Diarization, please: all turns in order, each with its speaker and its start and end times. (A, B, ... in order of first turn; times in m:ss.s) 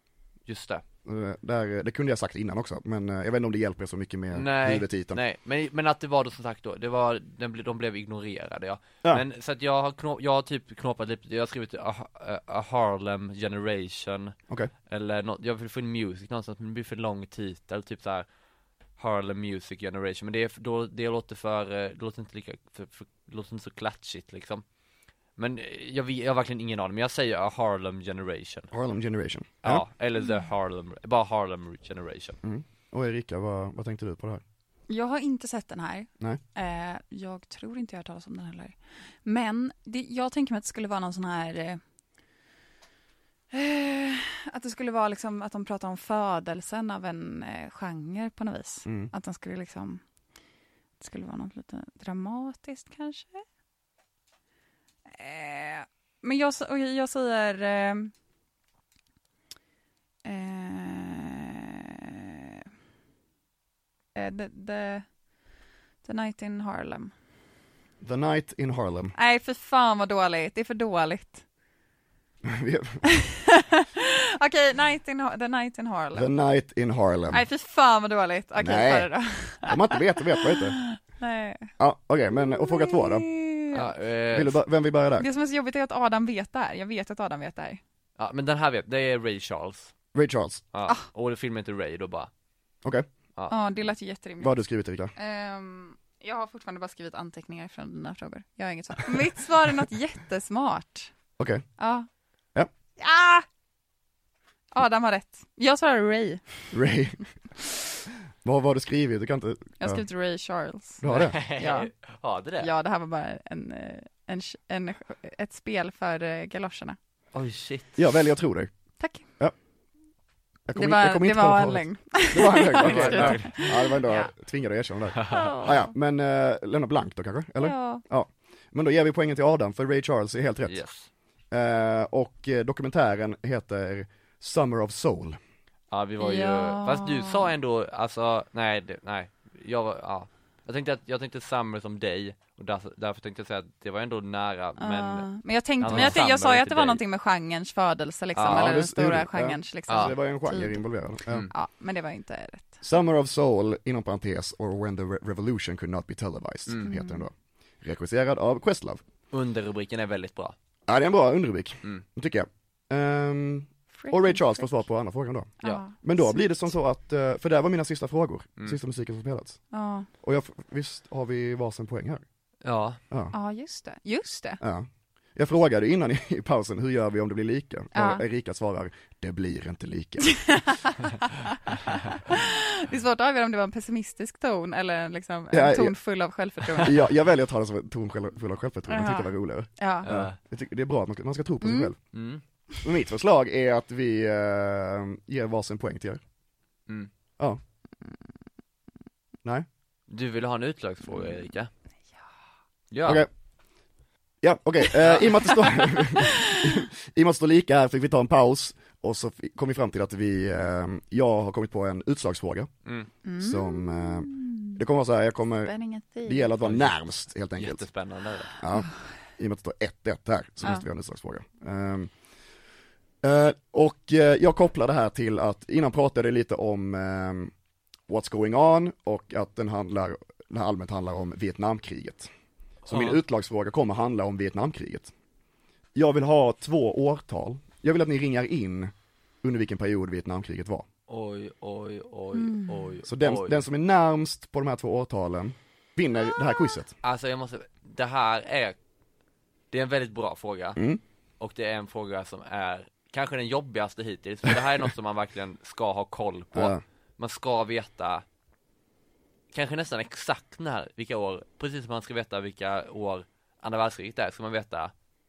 0:00.5-0:00.8 A
0:01.0-0:05.2 B
0:04.3-0:14.4 A
0:14.9-0:18.3 A
0:19.0-0:24.6 A
0:25.4-0:28.7 A
0:28.7-0:29.8 B
0:29.6-0:32.4 A
0:32.4-0:34.4 B
0:34.9-0:41.8 C
0:43.5-0:50.0 C
0:48.9-0:49.1 B
0:51.0-0:53.4 C
0:55.1-0:58.1 C
1:00.2-1:02.6 C
1:04.2-1:05.1 C
1:06.0-1:07.1 C
1:08.0-1:09.1 B
1:09.2-1:11.4 C
1:12.4-1:13.1 B
1:13.0-1:16.3 C
1:16.2-1:17.4 B
1:17.3-1:21.7 C
1:18.6-1:20.8 B
1:21.8-1:23.3 B
1:22.3-1:23.9 C
1:23.7-1:24.6 A
1:24.3-1:25.3 B
1:25.2-1:27.8 C
1:28.2-1:29.9 A
1:30.1-1:30.6 B
1:30.7-1:32.3 A
1:33.5-1:34.5 C
1:34.4-1:35.1 B
1:35.2-1:41.1 C
1:41.4-1:41.6 B
1:41.8-1:42.1 C
1:43.0-1:43.5 C
1:44.7-1:46.5 C
1:46.7-1:47.2 B
1:48.4-1:50.0 B
1:49.8-1:51.9 C
1:51.0-1:51.4 B
1:51.1-1:52.7 A
1:52.6-1:57.0 C
1:57.3-1:58.0 A
1:58.0-1:58.7 B
2:00.7-2:10.8 B
2:00.8-2:04.3 C
2:02.8-2:03.7 A
2:05.1-2:05.5 A
2:05.3-2:05.8 C
2:07.6-2:08.0 C
2:10.7-2:11.1 A
2:11.5-2:15.4 B
2:15.9-2:25.3 A
2:16.2-2:17.5 C
2:24.8-2:30.8 C
2:25.8-2:27.0 A
2:25.9-2:26.2 B
2:28.4-2:28.7 A
2:28.4-2:31.5 B
2:29.9-2:30.1 A
2:31.5-2:32.8 C
2:32.8-2:39.0 B
2:36.8-2:37.2 C
2:39.3-2:40.6 A
2:40.9-2:49.6 B
2:44.0-2:44.7 C
2:45.6-2:46.6 C
2:49.7-2:50.1 C
2:50.2-2:52.2 B
2:52.6-2:53.0 A
2:53.3-2:54.6 C
2:54.6-3:00.5 B
2:58.0-2:58.2 C
3:00.2-3:07.1 C
3:05.5-3:06.0 B
3:06.8-3:12.0 B
3:08.9-3:10.1 C
3:10.0-3:10.4 A
3:11.6-3:11.9 C
3:12.1-3:12.4 A
3:12.8-3:16.2 B
3:20.1-3:21.7 A
3:22.9-3:23.2 A
3:24.4-3:32.7 B
3:25.0-3:25.3 A
3:26.1-3:26.8 C
3:32.8-3:33.1 A
3:33.2-3:34.8 C
3:33.4-3:35.7 B
3:35.6-3:36.5 C
3:36.2-3:37.8 B
3:36.6-3:37.0 A
3:37.6-3:38.6 A
3:38.6-3:42.1 B
3:43.2-3:47.5 B
3:48.1-3:52.3 B
3:52.8-3:53.2 A
3:52.9-3:55.1 B
3:56.0-4:00.9 B
4:01.1-4:03.6 A
4:02.4-4:02.9 C
4:03.1-4:06.9 B
4:07.0-4:08.8 A
4:09.7-4:10.8 A
4:11.4-4:18.2 A
4:16.5-4:16.8 B
4:19.5-4:24.9 A